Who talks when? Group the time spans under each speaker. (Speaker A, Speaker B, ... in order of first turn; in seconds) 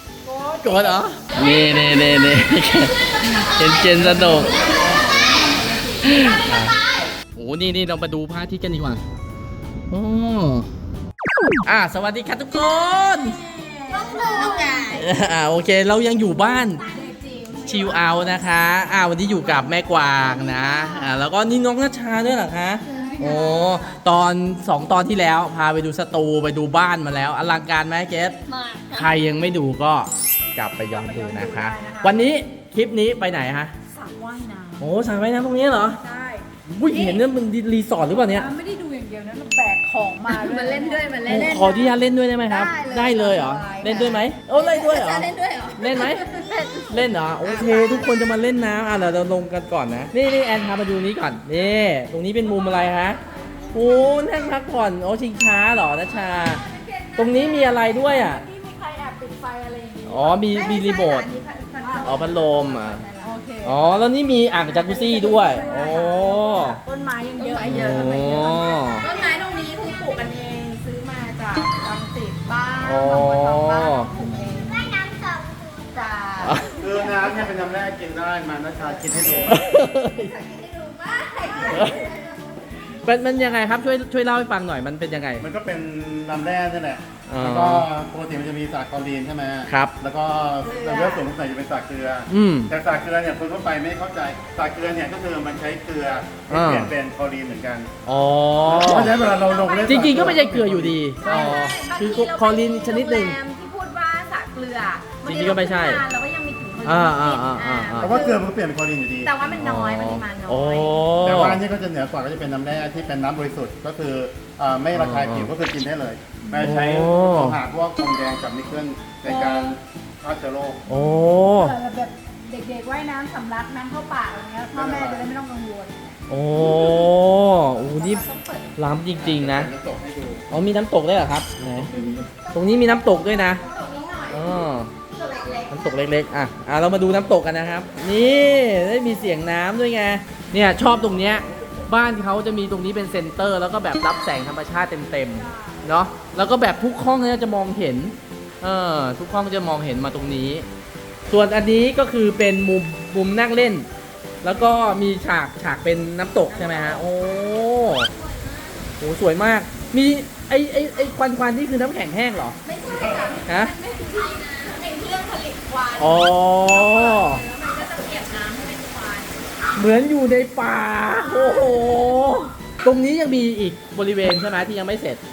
Speaker A: 0.2-1.5, 4.0-6.2, 13.0-15.0, 16.8-18.4, 22.9-24.0, 30.9-32.3, 33.9-34.9, 35.9-37.2, 38.0-41.1, 56.1-60.4, 61.8-62.2, 63.2-63.9, 64.7-69.0, 119.2-119.8, 121.0-126.2, 145.3-145.9
Speaker B: 0.6-4.5, 6.0-6.8, 7.3-9.0, 9.9-10.7, 11.7-13.4, 14.9-16.8, 17.6-28.4, 28.9-33.7, 34.8-36.0, 36.7-38.5, 41.2-46.3, 46.9-53.2, 53.7-56.6, 57.2-58.4, 60.0-61.3, 62.0-63.0, 63.6-66.8, 67.6-69.0, 72.8-74.1, 76.4-76.7, 79.5-80.3, 81.7-82.0, 83.0-85.5, 87.3-87.9, 89.7-89.9, 92.3-92.7, 96.5-96.9, 98.0-99.2, 99.8-103.4, 105.2-106.0, 106.8-108.2, 109.5-111.6, 114.9-115.5, 116.6-117.6, 120.9-121.7, 126.3-128.2, 128.8-129.7, 130.5-131.9, 132.5-133.6, 134.3-134.9, 135.7-150.6, 151.3-153.9, 154.4-158.1, 159.0-162.6, 163.4-163.7, 166.0-167.4, 169.7-175.2
Speaker C: 6.2-7.1, 13.9-15.1, 16.6-17.1, 20.4-21.0, 22.9-23.3, 28.5-29.1, 40.3-48.1, 53.7-54.5, 60.5-63.3, 65.1-66.2, 67.4-77.5, 78.8-83.1, 90.6-91.2, 99.0-100.4, 101.2-108.4, 109.2-111.0, 128.0-128.7, 132.3-135.8, 156.4-158.8, 162.6-169.4, 171.2-171.8
Speaker D: 76.8-79.6, 85.4-97.9, 98.6-101.6, 108.0-109.3, 111.2-120.8, 124.7-125.3, 129.1-130.5, 131.6-132.3, 141.0-141.4, 162.8-163.3